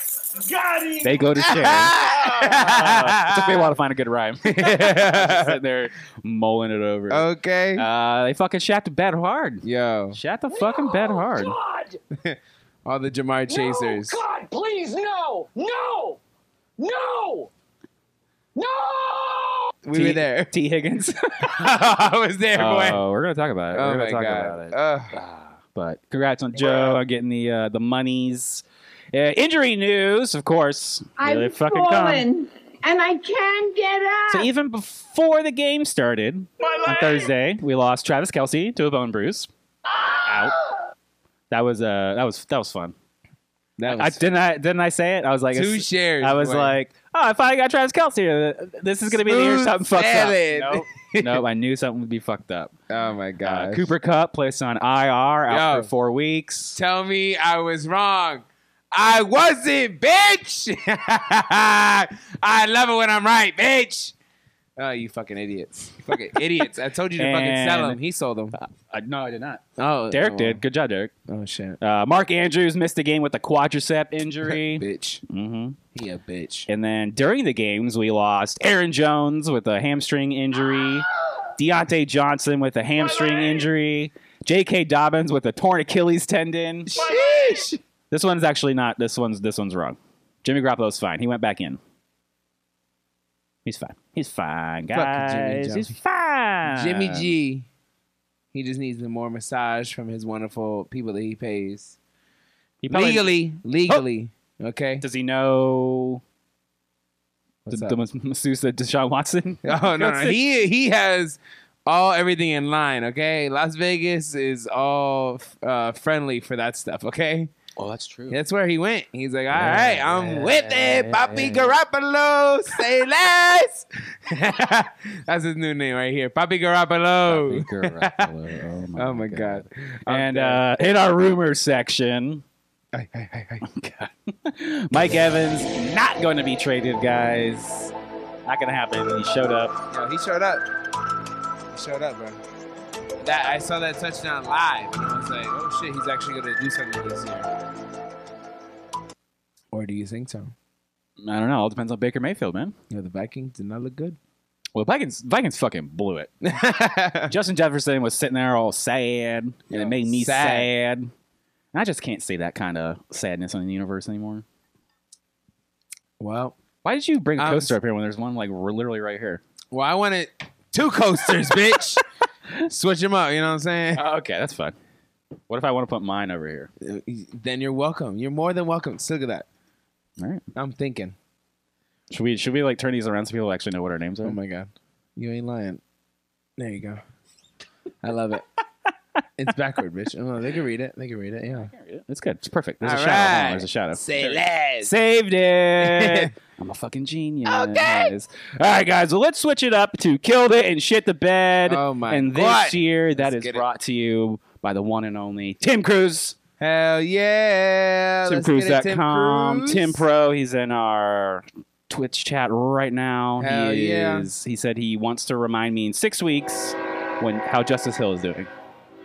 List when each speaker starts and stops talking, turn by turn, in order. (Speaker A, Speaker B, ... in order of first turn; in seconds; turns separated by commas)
Speaker A: 0.3-1.4, Speaker B: 1.0-11.6, Speaker C: 1.4-3.6, Speaker C: 4.4-5.6, Speaker C: 7.1-7.8, Speaker C: 9.6-10.2, Speaker A: 10.5-12.0, Speaker C: 12.1-14.2, Speaker A: 13.5-16.2, Speaker A: 16.8-17.5, Speaker A: 18.5-19.7, Speaker C: 19.8-20.5, Speaker B: 19.9-21.7, Speaker C: 21.4-23.0, Speaker B: 22.5-32.3, Speaker C: 23.7-25.2, Speaker D: 31.2-34.4, Speaker A: 31.9-33.9, Speaker B: 34.3-39.5, Speaker A: 36.6-37.2, Speaker B: 40.2-40.5, Speaker B: 41.5-42.9, Speaker C: 43.8-44.2, Speaker B: 43.9-52.7, Speaker C: 45.5-46.8, Speaker C: 49.1-51.4, Speaker C: 52.9-53.9, Speaker B: 53.4-56.8, Speaker C: 55.5-55.9, Speaker C: 56.7-64.1, Speaker C: 64.8-68.6, Speaker B: 67.2-68.0, Speaker B: 68.5-71.1, Speaker C: 69.8-70.6, Speaker C: 71.3-71.8, Speaker B: 71.8-75.8, Speaker C: 74.5-75.2, Speaker C: 75.9-76.7, Speaker B: 76.7-86.9, Speaker C: 86.9-87.8, Speaker A: 87.0-87.7, Speaker B: 88.1-91.8, Speaker B: 93.6-97.3, Speaker C: 94.9-95.9, Speaker C: 96.7-97.7, Speaker C: 98.5-102.0, Speaker B: 102.8-103.3, Speaker C: 102.9-105.0, Speaker B: 105.0-106.2, Speaker C: 107.7-108.0, Speaker B: 107.7-110.4, Speaker C: 109.6-117.5, Speaker B: 117.8-118.4, Speaker C: 118.3-128.3, Speaker B: 119.5-121.8, Speaker B: 127.2-132.4, Speaker C: 128.9-130.6, Speaker C: 132.9-133.7, Speaker B: 133.6-137.9, Speaker B: 138.4-139.8, Speaker C: 139.9-140.6, Speaker C: 141.7-142.4, Speaker C: 143.2-147.5, Speaker C: 149.7-150.5, Speaker B: 151.2-152.7, Speaker C: 152.9-154.2, Speaker B: 154.7-156.3, Speaker C: 156.4-157.3, Speaker B: 157.3-161.1, Speaker C: 159.7-160.7, Speaker B: 161.7-164.4, Speaker C: 166.2-166.6, Speaker B: 166.8-169.4, Speaker C: 167.4-167.7, Speaker C: 169.7-174.1, Speaker B: 173.9-174.8, Speaker B: 175.5-176.7, Speaker C: 176.8-179.5, Speaker B: 180.2-180.4, Speaker C: 180.5-181.2, Speaker B: 182.1-184.4, Speaker C: 184.2-185.8, Speaker C: 186.6-187.0, Speaker C: 188.0-188.4, Speaker C: 189.4-191.7, Speaker B: 191.7-206.3, Speaker C: 192.8-194.9, Speaker C: 195.8-196.3, Speaker C: 197.5-198.1, Speaker C: 201.7-203.6, Speaker C: 206.6-210.0, Speaker B: 208.2-218.5, Speaker C: 213.4-214.3